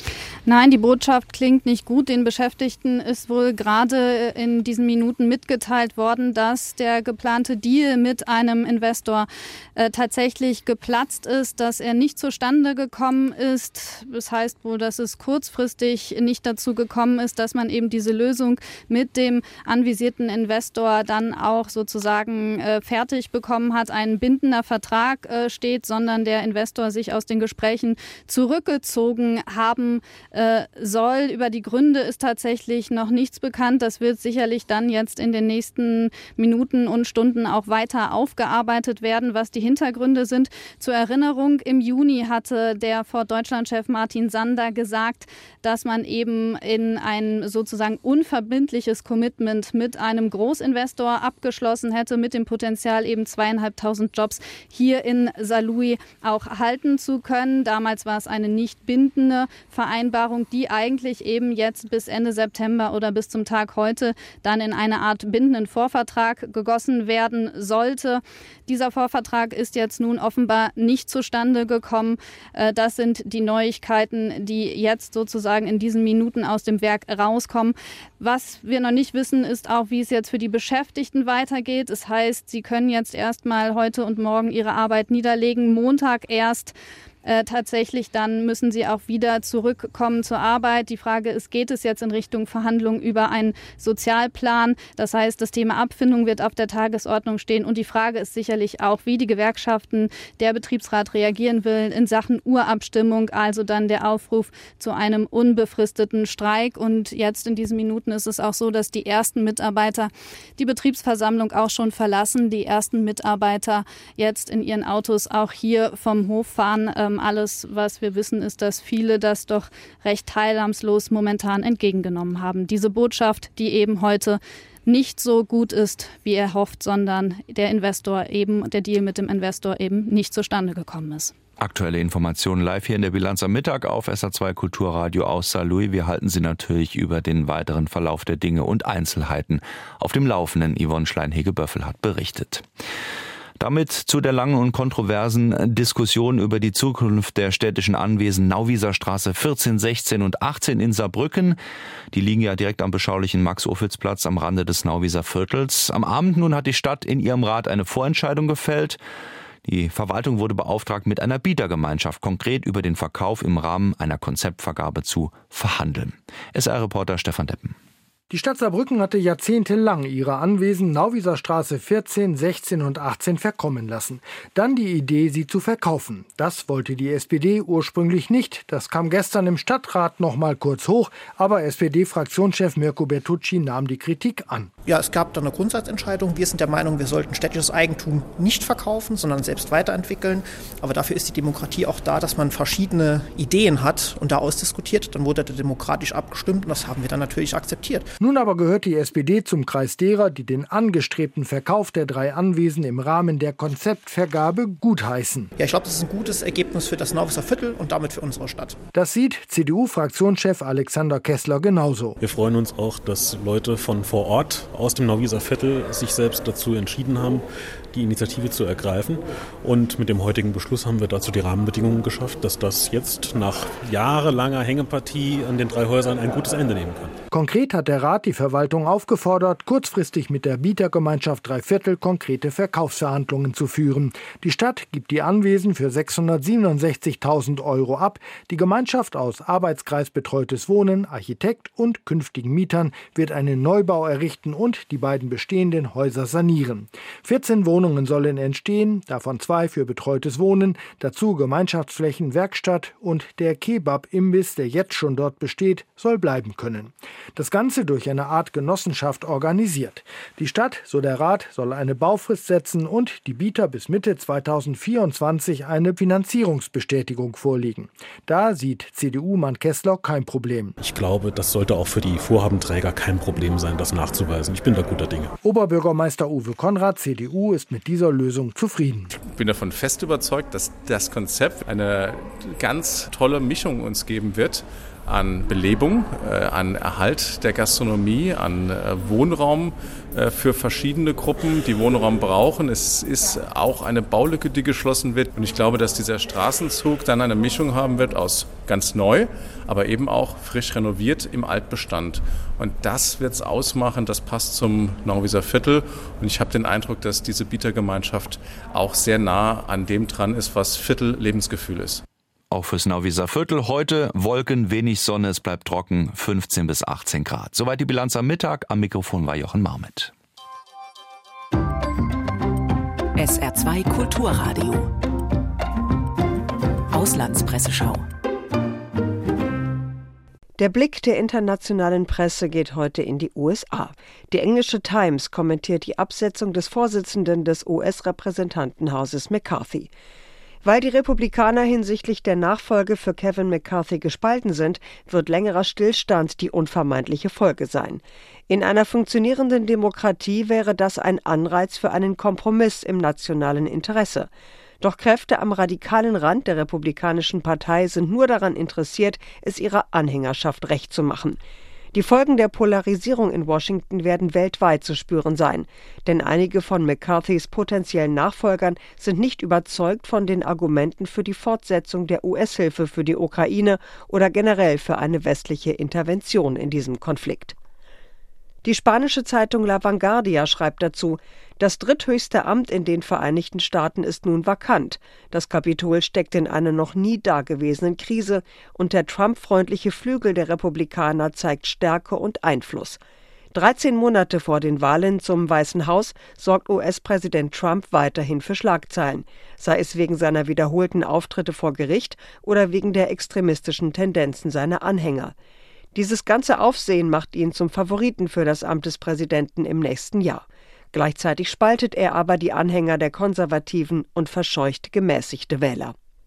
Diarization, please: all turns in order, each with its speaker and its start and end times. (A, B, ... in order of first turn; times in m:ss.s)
0:00.5-1:26.7 A
1:27.2-2:11.3 A
2:11.6-2:22.6 B
2:23.6-2:31.6 B
2:32.1-2:39.0 B
2:39.6-2:47.7 B
2:48.3-3:04.7 C
3:04.8-3:18.1 D
3:18.2-3:25.5 C
3:25.6-3:28.8 D
3:28.9-3:32.2 C
3:32.2-3:47.2 E
3:47.3-4:30.8 C
4:30.8-4:35.3 E
4:35.4-4:39.1 C
4:39.1-5:12.0 F
5:12.5-5:20.1 B
5:23.2-5:24.9 G
5:26.9-5:28.1 G
5:30.6-5:39.9 H
5:40.6-5:54.3 H
5:54.8-6:01.4 H
6:01.9-6:17.6 H
6:18.6-6:33.0 H
6:33.5-6:45.3 H
6:45.9-6:55.9 H